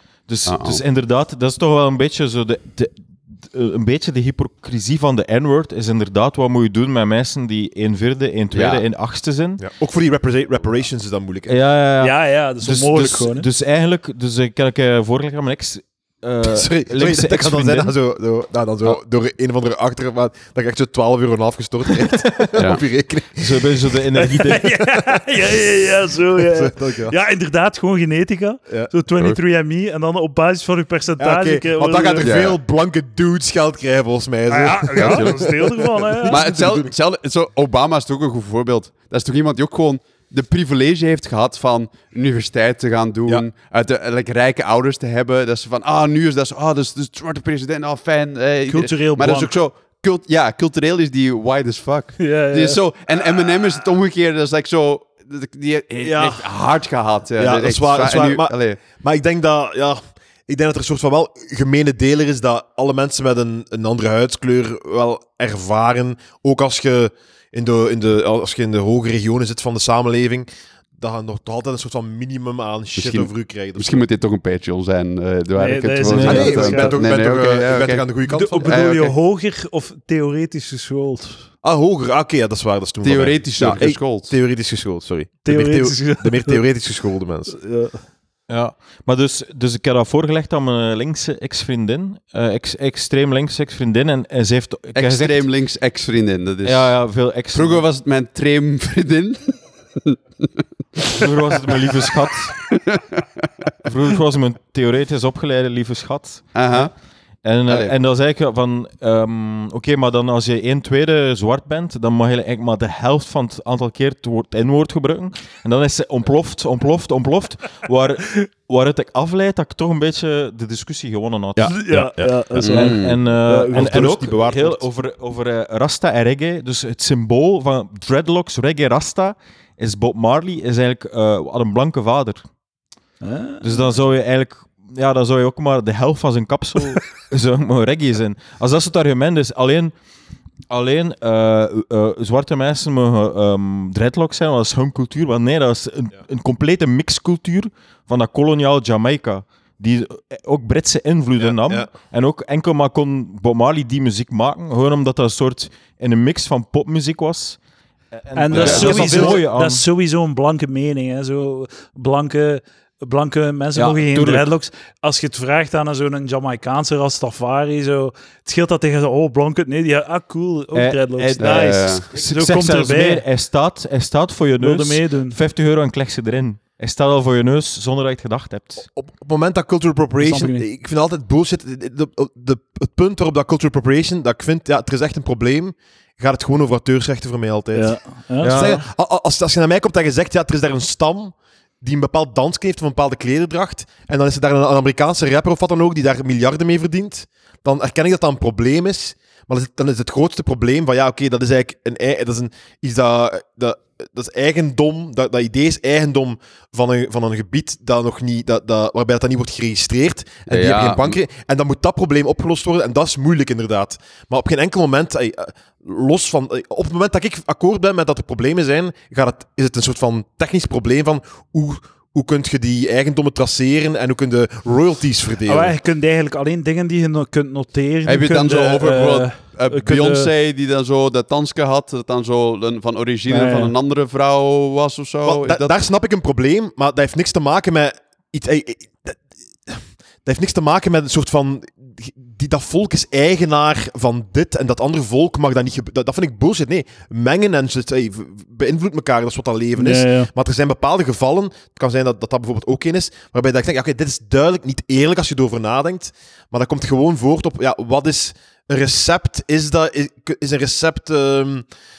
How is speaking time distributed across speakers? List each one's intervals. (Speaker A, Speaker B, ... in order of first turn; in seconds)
Speaker A: 0.3-9.6, 11.5-17.9, 23.4-24.8, 76.0-76.6, 88.5-95.5, 96.6-97.8, 101.1-102.7, 103.8-106.9, 107.4-122.1, 122.6-132.4, 133.6-139.9, 140.7-157.6, 158.1-159.8, 163.7-164.5, 170.7-178.9, 188.4-188.8
Speaker B: 0.5-0.8, 8.5-8.8, 22.6-22.8, 32.2-32.6, 35.0-35.5, 36.3-58.8, 73.0-78.1, 78.6-79.1, 83.0-84.3, 95.0-97.0, 97.5-101.2, 102.7-103.5, 106.5-106.9, 107.7-107.9, 122.6-123.2, 158.6-158.8, 171.4-172.0, 210.5-211.2, 228.1-235.7
Speaker C: 9.6-11.6, 16.4-23.9, 26.4-27.2, 31.2-37.0, 56.0-56.5, 57.4-74.0, 76.2-78.8, 81.6-87.6, 121.5-122.8, 123.4-124.8, 151.4-151.9, 158.5-159.4, 178.9-225.7, 235.2-261.6
Speaker D: 12.0-13.5, 24.2-32.3, 34.5-36.4, 48.7-49.5, 52.2-52.8, 75.5-77.0, 78.3-81.5, 85.5-86.6, 87.5-88.0, 121.6-123.8, 133.2-133.9, 158.3-173.2, 174.6-175.4, 180.2-180.6, 187.7-188.8, 225.4-230.3, 233.3-233.7, 249.8-250.3